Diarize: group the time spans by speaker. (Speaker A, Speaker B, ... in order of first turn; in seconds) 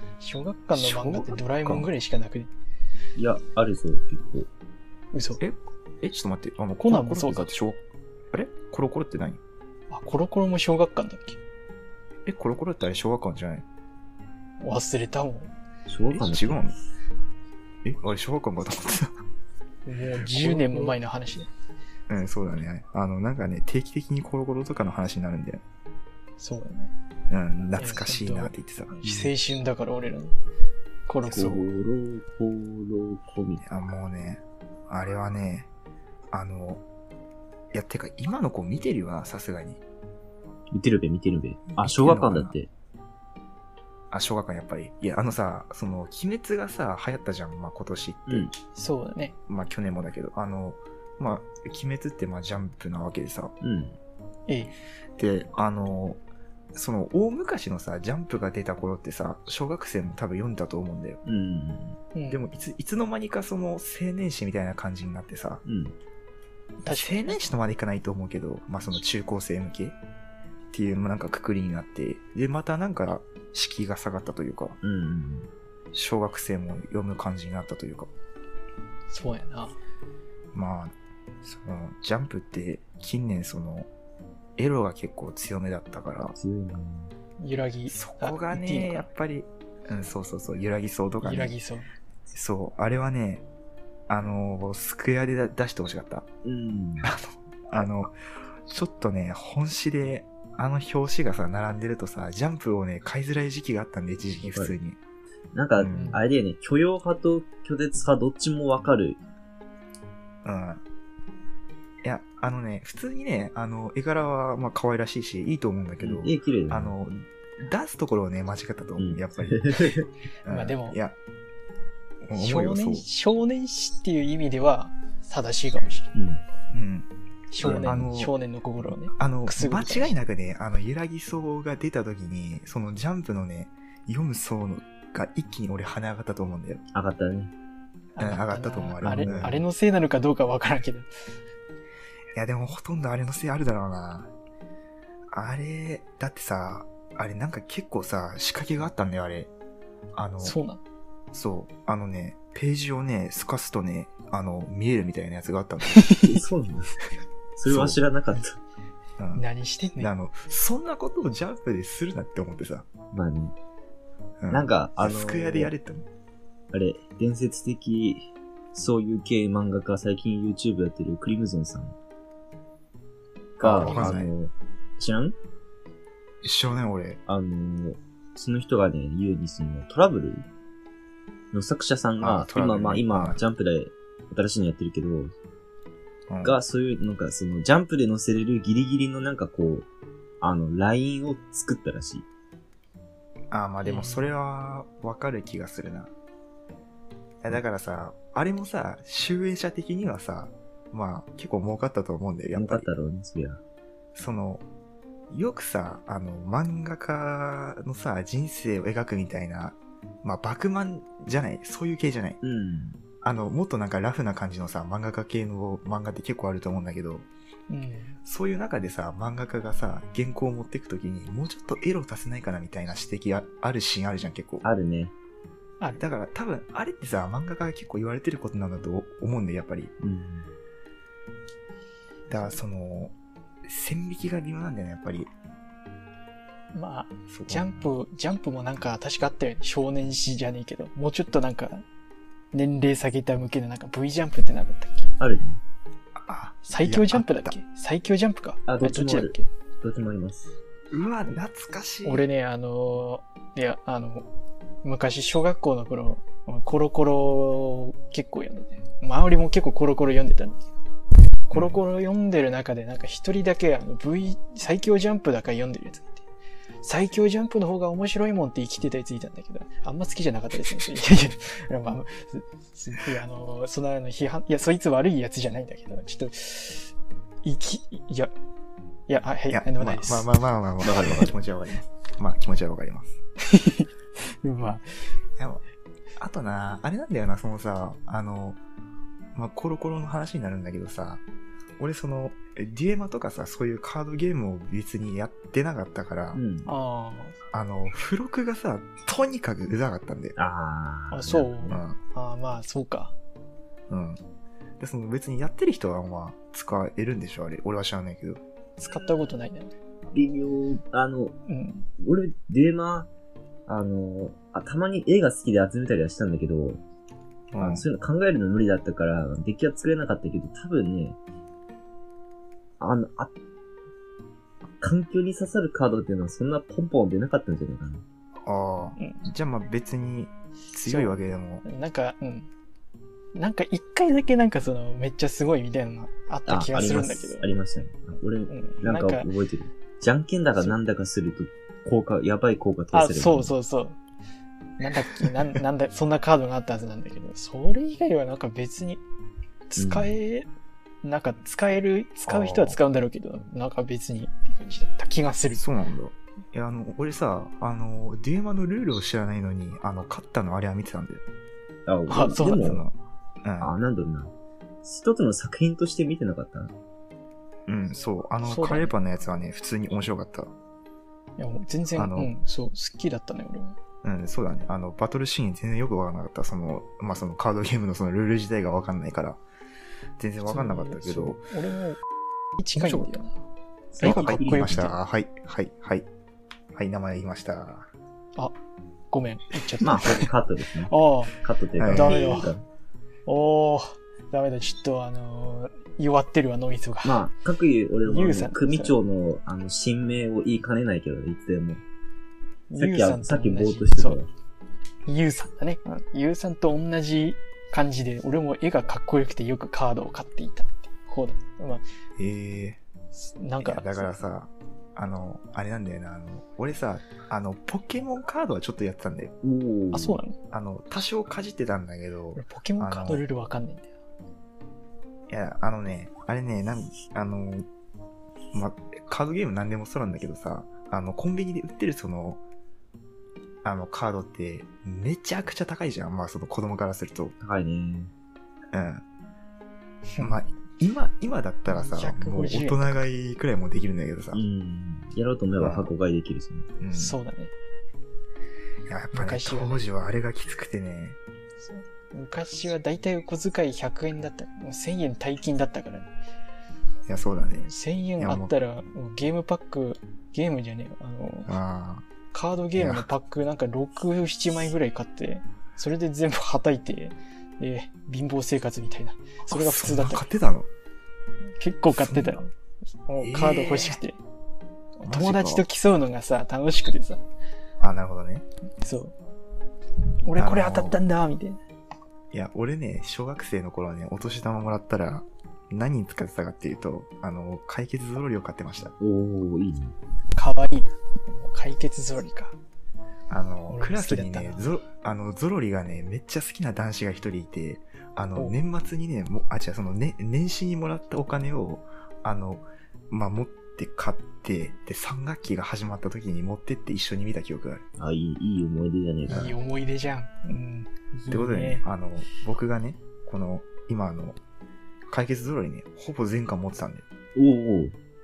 Speaker A: 0.2-2.5, 5.1-5.4, 6.8-7.5, 9.9-11.4, 14.6-15.5, 19.9-21.5, 26.4-26.9, 27.8-30.4, 31.1-31.6, 48.7-49.4, 54.5-54.7, 62.1-62.4, 66.8-67.4, 79.1-79.8, 87.4-89.0, 91.2-91.9, 105.9-106.2, 120.5-121.0, 122.3-126.1, 127.5-130.2, 138.1-141.1, 150.4-150.8, 155.9-156.4, 159.3-160.1, 173.8-174.2, 193.8-194.3, 217.7-218.2, 236.7-241.8, 242.5-245.1, 246.6-249.5, 252.0-254.2, 254.8-260.7, 261.5-266.2, 266.8-276.9, 277.4-278.3, 279.1-280.3, 283.4-285.1, 296.6-297.4, 301.1-303.1, 308.8-309.7, 311.4-311.9, 329.0-329.2, 330.8-332.5, 333.3-337.5, 338.5-339.3, 342.9-344.0, 344.8-349.0, 349.7-350.5, 351.0-355.6, 362.1-362.7, 368.4-368.9, 371.4-373.8, 380.4-382.0, 382.6-383.3, 384.0-384.9, 389.1-390.3, 390.9-391.3, 391.9-392.5, 393.2-397.2, 398.0-398.9, 402.7-404.2, 405.1-411.8, 413.1-414.1, 419.9-420.4, 422.4-423.9, 440.1-440.4, 441.7-443.0, 446.9-447.5, 449.1-449.8, 451.6-456.1, 457.6-461.5, 462.3-470.2, 471.6-472.5, 473.0-474.2, 475.0-477.2, 478.8-479.1, 480.2-481.6, 490.4-492.6, 493.7-494.7, 509.3-511.8
Speaker B: 0.7-1.9, 5.4-7.8, 8.3-9.4, 12.2-13.7, 16.1-16.7, 17.8-19.1, 20.2-20.9, 22.1-25.6, 27.3-29.0, 31.3-31.6, 33.6-35.7, 36.3-36.8, 37.7-39.8, 41.8-42.5, 44.1-48.5, 49.5-53.5, 55.2-56.2, 56.7-61.2, 62.3-65.6, 66.9-70.0, 70.7-74.8, 75.9-78.1, 80.5-83.9, 84.6-86.4, 87.9-91.5, 92.3-93.4, 94.1-96.3, 97.0-98.2, 98.7-105.0, 105.8-106.2, 110.4-110.8, 112.0-121.2, 122.2-123.0, 126.7-127.1, 127.6-128.3, 129.1-136.8, 138.2-139.6, 142.3-144.3, 145.3-149.5, 150.1-150.6, 151.3-156.1, 157.7-158.0, 159.2-159.4, 160.0-162.9, 164.4-166.1, 173.6-174.3, 176.4-177.2, 182.2-183.4, 186.3-186.6, 193.5-196.1, 197.4-202.9, 204.1-204.6, 205.3-212.4, 213.2-217.3, 218.2-224.6, 226.0-229.9, 232.3-235.3, 237.3-237.9, 246.1-247.6, 250.9-252.2, 261.5-261.8, 279.5-283.2, 285.4-285.6, 286.2-288.6, 289.3-291.2, 291.8-296.4, 297.5-300.4, 301.7-302.0, 303.9-304.2, 304.8-308.4, 317.5-317.9, 328.4-331.6, 352.3-352.8, 355.5-361.2, 362.6-363.7, 367.7-370.5, 371.9-372.3, 374.0-379.4, 380.2-381.4, 382.7-383.1, 384.0-386.1, 386.7-387.9, 391.8-392.3, 412.2-412.8, 413.6-419.4, 420.5-423.2, 425.3-427.7, 428.5-432.4, 433.6-437.3, 438.7-439.0, 440.2-444.4, 445.6-445.9, 446.8-447.2, 448.9-451.2, 457.1-458.5, 461.5-462.1, 462.8-463.1, 469.4-470.7, 471.9-472.4, 473.2-474.0, 475.0-475.6, 477.8-478.4, 480.4-481.0, 482.3-488.9, 493.3-507.8, 509.3-509.6, 511.3-514.4, 515.1-517.0
Speaker C: 3.1-4.5, 15.9-16.6, 31.3-33.6, 40.7-42.7, 48.3-48.5, 53.6-54.0, 61.2-62.0, 65.7-65.9, 74.8-75.5, 86.4-87.1, 96.4-97.1, 105.5-109.2, 116.0-117.0, 119.0-120.1, 126.1-126.4, 127.6-128.0, 136.9-137.5, 139.0-139.5, 156.2-157.0, 157.6-158.6, 163.1-163.5, 164.5-165.7, 166.7-171.9, 173.6-175.3, 177.3-180.4, 181.5-185.3, 186.4-189.9, 190.4-192.2, 202.5-203.6, 212.4-213.0, 224.6-225.1, 230.0-230.5, 245.2-245.6, 248.7-250.5, 280.8-281.3, 296.3-296.7, 300.4-301.8, 310.1-311.3, 312.0-313.1, 313.7-316.8, 317.6-321.2, 322.8-323.3, 324.8-328.0, 336.4-343.6, 349.8-350.1, 361.9-362.8, 363.6-364.3, 364.8-366.7, 383.9-384.9, 389.8-392.6, 397.0-401.8, 402.8-404.3, 419.4-420.2, 437.4-438.1, 444.3-446.7, 489.0-489.9, 508.0-509.5, 517.3-518.0